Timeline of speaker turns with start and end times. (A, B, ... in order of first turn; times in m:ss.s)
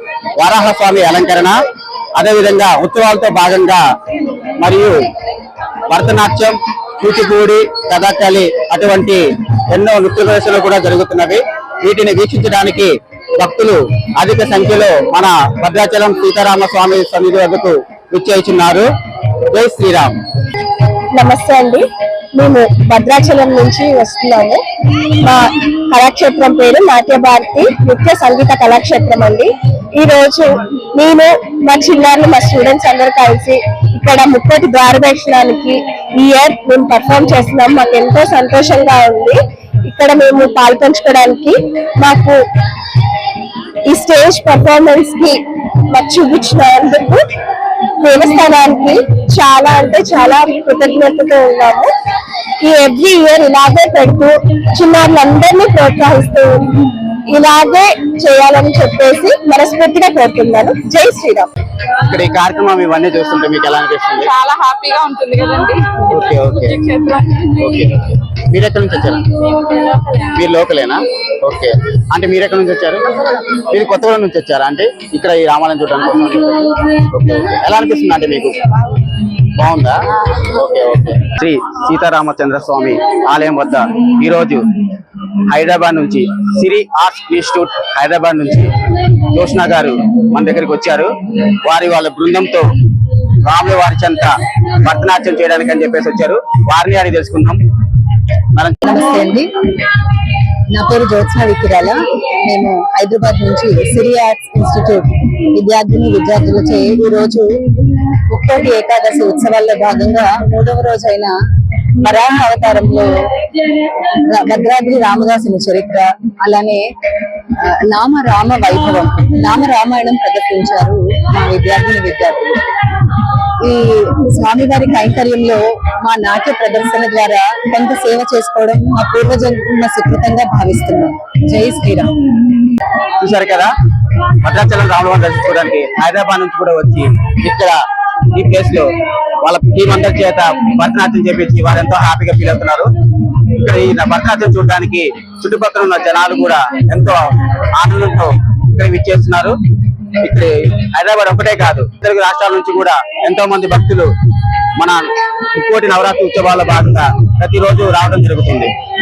0:00.4-0:01.6 A
0:02.2-0:03.8 A
0:04.6-0:04.9 A
0:05.9-0:18.8 A
0:19.5-0:20.2 A
0:21.1-0:42.4 B
0:43.9-0:47.2 B
0:48.0-0:51.9 B
0:52.6-1:01.5 B
1:02.0-1:04.3 A
1:04.3-1:06.1 C
1:06.1-1:06.9 A
1:06.7-1:07.5 C
1:07.5-1:09.3 A
1:09.7-1:10.2 C
1:10.1-1:18.6 A
1:19.5-1:24.7 A
1:25.5-1:28.7 A
1:29.3-1:32.7 A
1:33.4-1:37.6 A
1:38.5-1:38.8 A
1:38.8-1:39.5 D
1:40.7-1:47.5 D
1:48.3-1:51.3 D
1:52.0-1:53.1 D
1:54.1-1:56.8 D
1:57.6-2:02.6 D
2:03.6-2:12.1 D
2:13.2-2:13.7 A
2:14.4-2:17.8 A
2:18.3-2:18.9 A
2:19.4-2:22.9 A
2:23.5-2:27.2 A
2:27.8-2:29.6 A
2:30.2-2:34.1 A
2:34.8-2:35.0 A
2:35.6-2:38.7 A